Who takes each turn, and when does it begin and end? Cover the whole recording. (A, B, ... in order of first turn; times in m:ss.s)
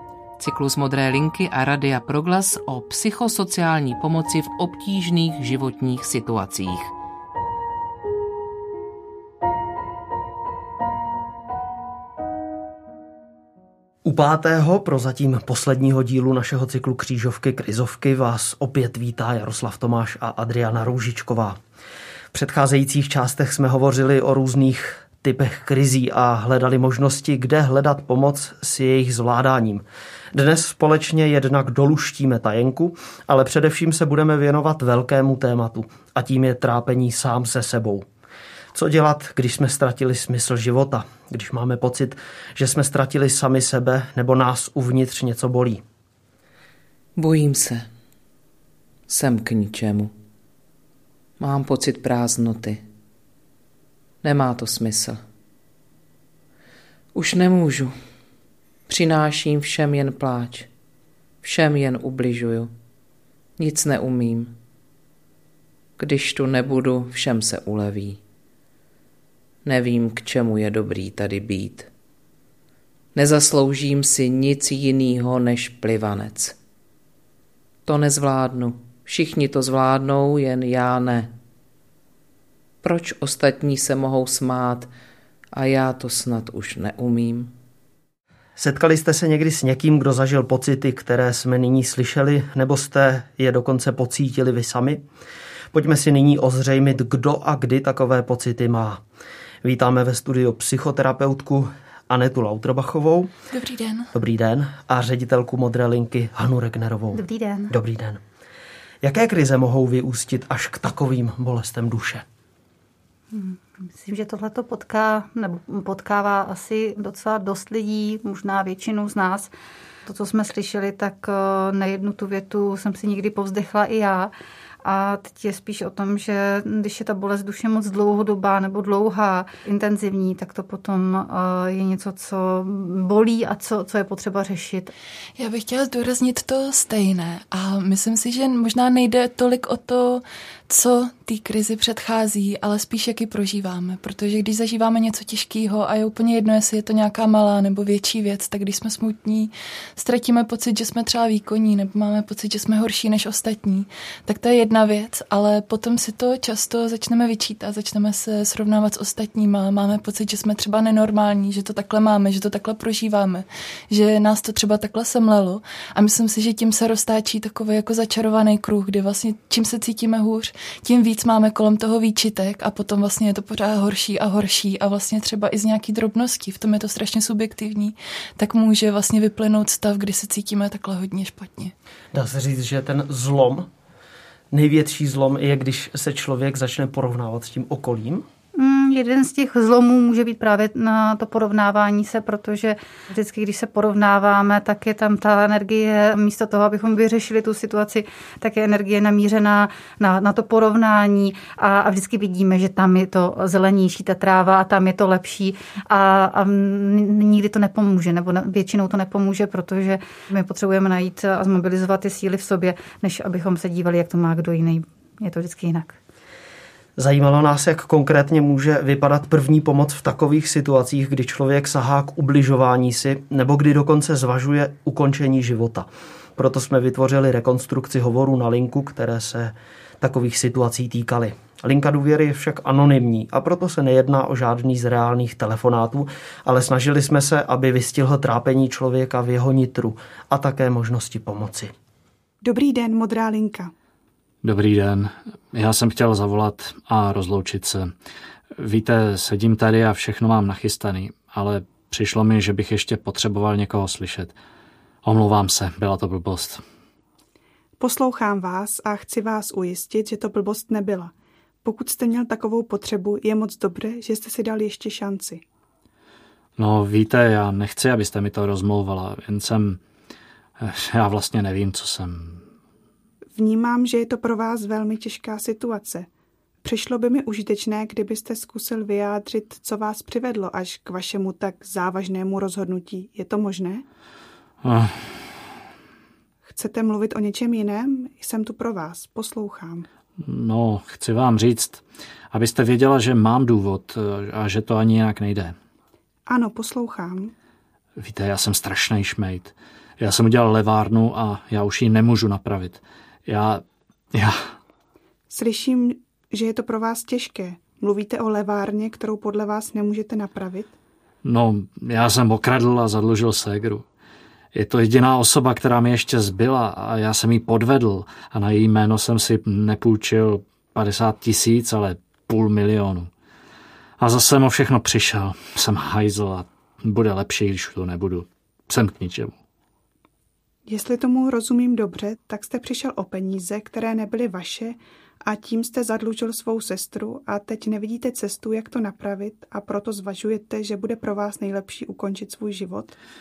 0:00.4-0:06.9 A
0:14.0-0:21.6 B
0:22.3-0:38.0 B
0:38.7-0:45.8 B
0:47.2-0:47.9 A
0:49.1-0:50.1 A
0:51.4-0:52.8 A
0:54.2-0:55.2 A
0:57.1-0:58.0 A
0:58.9-1:00.7 A
1:01.4-1:02.7 A
1:03.6-1:04.6 A
1:06.0-1:08.2 A
1:09.6-1:11.9 A
1:13.1-1:16.6 A
1:17.8-1:21.3 A
1:22.8-1:24.9 A
1:25.5-1:27.5 A
1:28.6-1:35.0 B
1:35.7-1:39.0 B
1:39.6-1:43.3 B
1:43.5-1:44.1 C
1:44.1-1:48.2 B
1:47.1-1:47.7 D
1:49.0-1:52.2 B
1:53.3-1:59.5 D
2:00.0-2:04.3 D
2:04.8-2:14.9 D
2:15.4-3:01.7 C
3:02.1-3:03.7 B
3:04.5-3:08.3 B
3:08.5-3:36.0 D
3:37.0-4:01.7 B
4:02.4-4:03.7 E
4:04.4-4:07.9 F
4:08.6-4:14.4 F
4:15.0-4:16.6 F
4:17.8-4:21.1 E
4:21.6-4:25.4 E
4:26.6-4:29.8 F
4:30.6-4:32.4 F
4:33.4-4:36.1 E
4:36.6-4:43.8 E
4:44.6-4:45.4 F
4:46.4-4:49.9 E
4:50.2-4:55.6 F
4:56.2-4:57.3 E
4:58.0-5:04.5 F
5:05.3-5:10.7 E
5:11.2-5:13.8 F
5:14.5-5:23.1 F
5:24.0-5:29.4 F
5:30.6-5:43.0 E